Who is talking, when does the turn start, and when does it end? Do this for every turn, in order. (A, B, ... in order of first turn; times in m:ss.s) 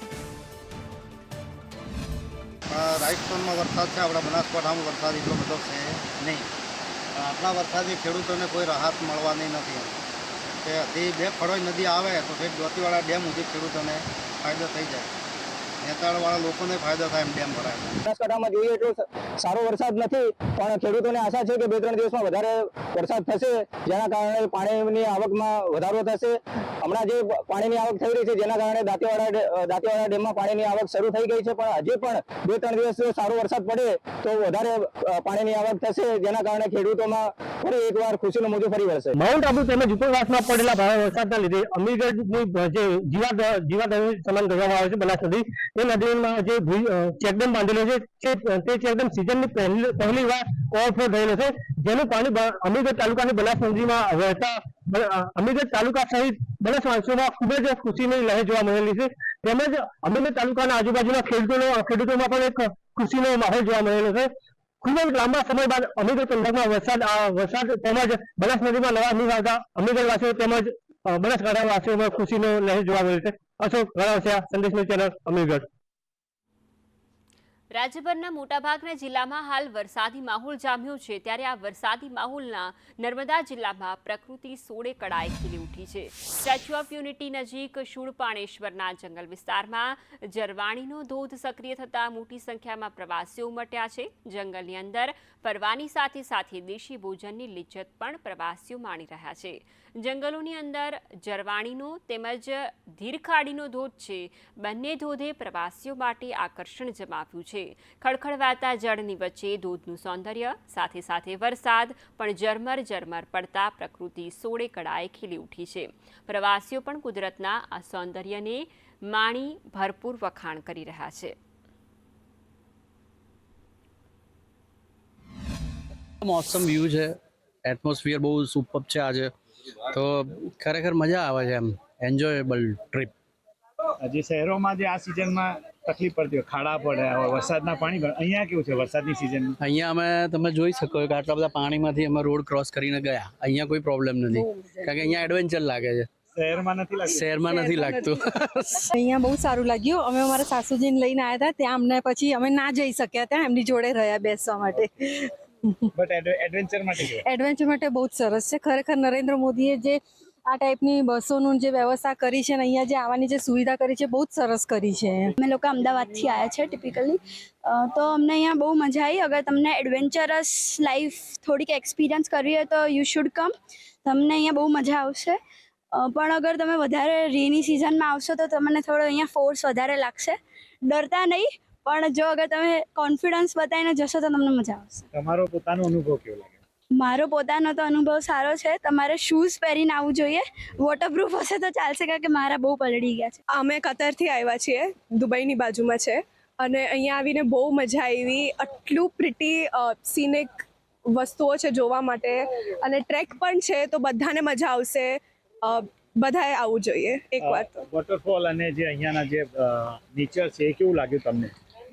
0:02.7-0:06.5 A
0:07.1-0:10.0 A
0:10.6-0:15.2 A
0:15.8-0:18.0 A
0:18.0-0:39.1 B
0:39.1-1:15.6 C
1:17.7-2:01.3 D
2:06.2-2:07.1 E
2:07.6-2:09.3 E
2:09.9-2:13.1 E
2:14.0-2:19.6 F
2:19.6-2:26.1 E
2:24.3-2:25.1 G
2:26.3-2:27.3 F
2:27.1-2:28.7 E
2:27.5-2:28.2 G
2:28.9-2:35.9 G
2:35.9-2:37.2 F
2:37.2-2:45.3 G
2:45.4-2:53.5 H
2:54.0-2:55.4 H
2:55.9-3:05.0 H
3:05.1-3:06.6 F
3:07.0-3:13.4 H
3:13.6-3:20.5 I
3:21.2-3:25.1 I
3:25.6-3:27.8 I
3:27.4-3:31.5 F